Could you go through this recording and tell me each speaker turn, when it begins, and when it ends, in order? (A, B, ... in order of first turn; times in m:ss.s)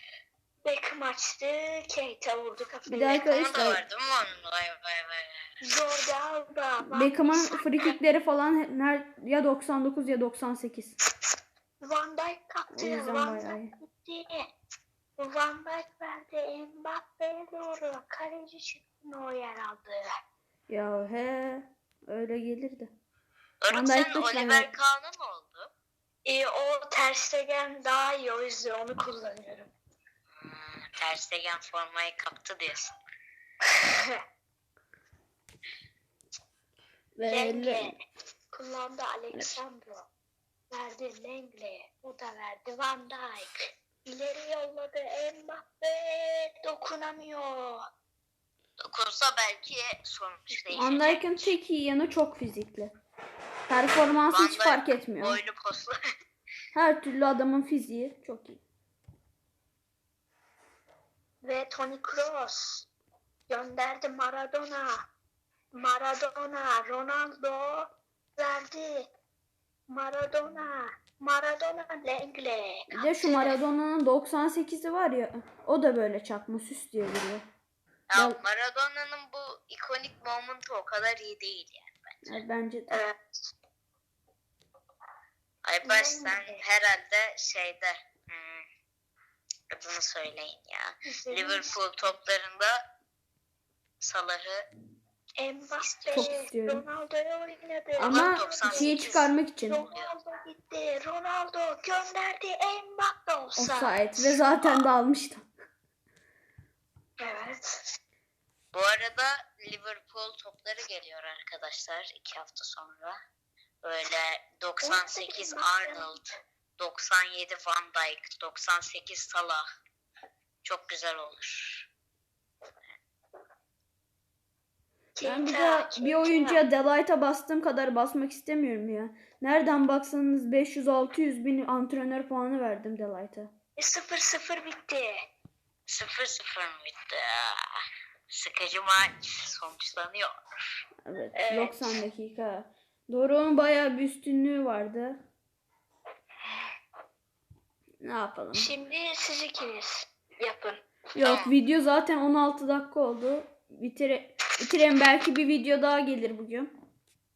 0:00.6-0:03.3 A
0:02.9-0:03.8 B
0:03.1-0:05.4 C
0:05.6-0:08.0 A
0:06.9-0:11.0 B
0:11.8-0:14.4 A
0:12.7-0:13.7 B
0:15.2-0:20.0 A
0:20.7-0:22.9 B
0:23.6-0:25.7 C
0:23.7-0:24.7 B
0:26.2-0:29.7 A
0:30.3-0:32.9 C
0:37.2-0:37.9 B
0:37.3-0:38.0 A
0:38.5-0:40.0 A
0:40.7-0:47.8 A
0:48.8-0:51.5 C
0:50.7-0:52.9 B
0:53.7-0:55.4 B
0:54.3-0:55.9 C
0:56.7-0:58.6 B
1:01.4-1:02.8 A
1:03.5-1:04.9 A
1:05.7-1:09.1 A
1:09.9-1:13.6 A
1:12.9-1:17.4 B
1:18.1-1:22.4 C
1:18.1-1:18.4 B
1:22.2-1:23.0 B
1:22.9-1:23.2 A
1:25.6-1:28.6 C
1:25.8-1:26.6 A
1:29.7-1:32.8 C
1:31.1-1:31.7 A
1:34.0-1:34.7 C
1:35.4-1:39.1 A
1:35.8-1:36.3 C
1:36.1-1:36.8 B
1:38.0-1:39.8 B
1:38.0-1:40.1 C
1:39.6-1:44.8 A
1:43.6-1:45.4 B
1:47.2-1:47.8 A
1:48.7-1:53.2 C
1:53.8-1:56.2 C
1:54.8-1:56.1 A
1:56.8-1:59.6 C
2:00.6-2:01.9 C
2:05.2-2:06.6 A
2:05.2-2:13.5 B
2:13.8-2:15.1 A
2:15.9-2:17.6 C
2:18.3-2:20.3 C
2:21.0-2:25.2 B
2:21.3-2:21.9 A
2:28.0-2:28.7 B
2:28.5-2:30.8 A
2:31.2-2:36.7 B
2:31.2-2:31.6 C